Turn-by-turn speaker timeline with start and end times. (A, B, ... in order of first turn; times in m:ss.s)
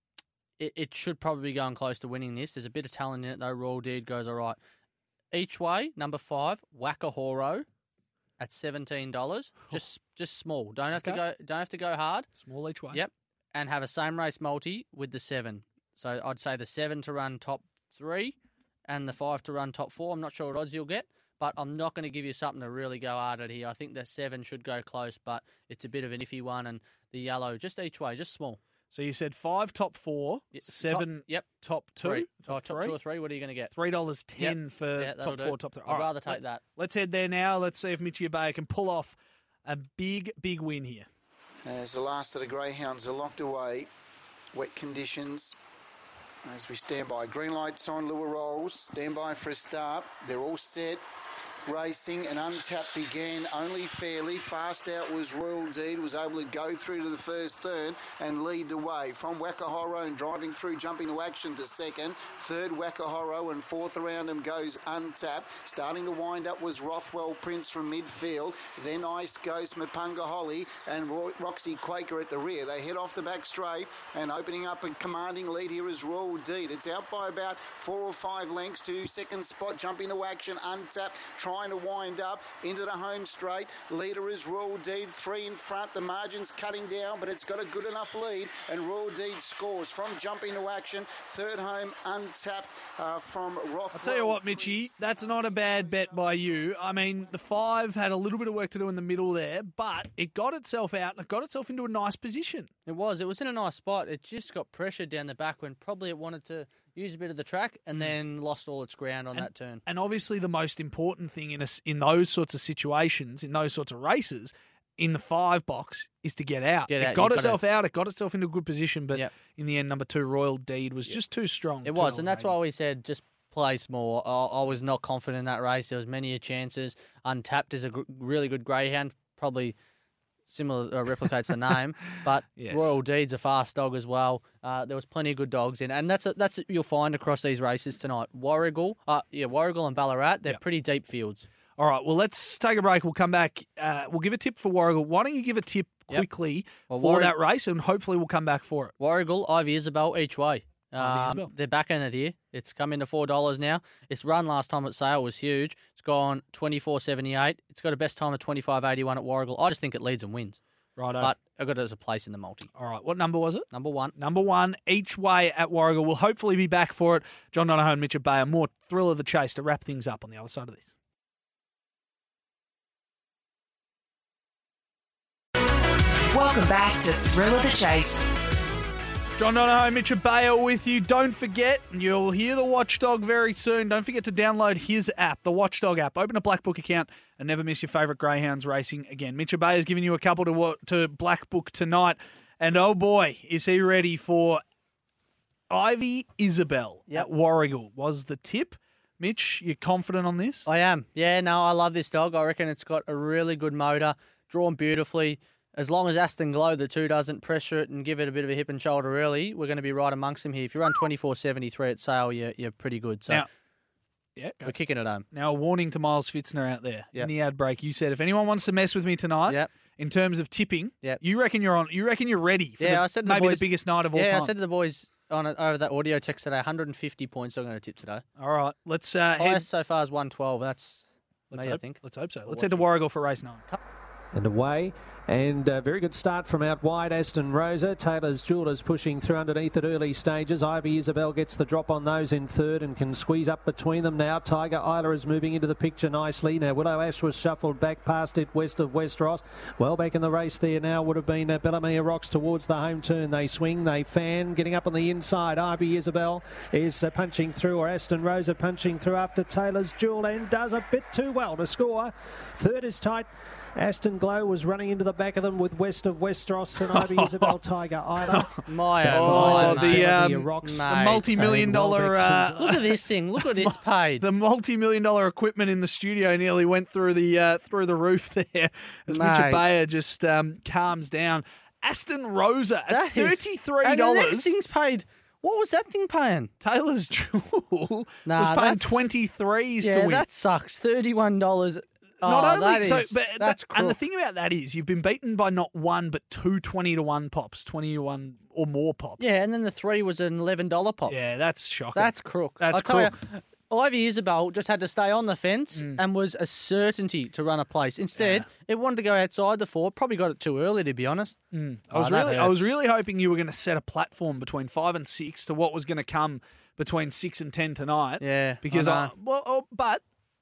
0:00.6-0:04.6 A
0:05.3-0:07.6 A
0:08.4-0:12.3 A
0:11.0-0:11.2 B
0:12.4-0:13.0 B
0:12.9-0:18.4 A
0:18.9-0:28.6 A
0:28.9-0:33.0 B
0:30.5-0:31.5 A
0:32.0-0:33.7 A
0:33.7-0:41.1 B
0:34.4-0:36.6 A
0:41.6-0:43.9 C
0:44.5-0:45.6 C
0:46.4-0:51.0 C
0:51.7-1:34.7 C
1:33.9-1:42.7 B
1:42.9-1:49.8 A
1:49.4-2:02.5 B
1:56.9-1:57.6 A
2:01.8-2:09.8 A
2:10.5-2:21.5 A
2:12.6-2:13.0 B
2:21.8-2:28.9 B
2:26.9-2:27.3 A
2:29.0-2:40.6 A
2:31.0-2:31.5 B
2:41.0-2:41.3 B
2:41.2-2:42.7 A
2:42.7-2:50.9 B
2:43.7-2:44.1 A
2:56.3-2:58.3 D
2:59.4-3:14.6 B
3:15.7-3:20.7 B
3:20.7-3:33.4 A
3:34.4-3:34.7 B
3:34.6-3:35.3 A
3:35.3-3:44.5 B
3:42.8-3:48.2 A
3:48.4-3:49.7 B
3:49.4-3:52.8 A
3:51.5-3:53.6 B
3:54.3-4:32.8 E
4:26.9-4:27.6 B
4:28.3-4:44.5 B
4:28.7-4:31.5 A
4:32.5-4:34.2 A
4:39.1-4:39.6 A
4:42.9-4:46.5 A
4:46.6-4:50.2 B
4:48.3-4:49.1 A
4:49.8-4:54.0 A
4:52.2-4:59.2 B
4:59.2-5:01.2 A
5:01.1-5:03.1 B
5:02.0-5:11.4 A
5:08.2-5:08.4 B
5:11.5-5:20.0 B
5:11.9-5:12.7 A
5:18.2-5:19.1 A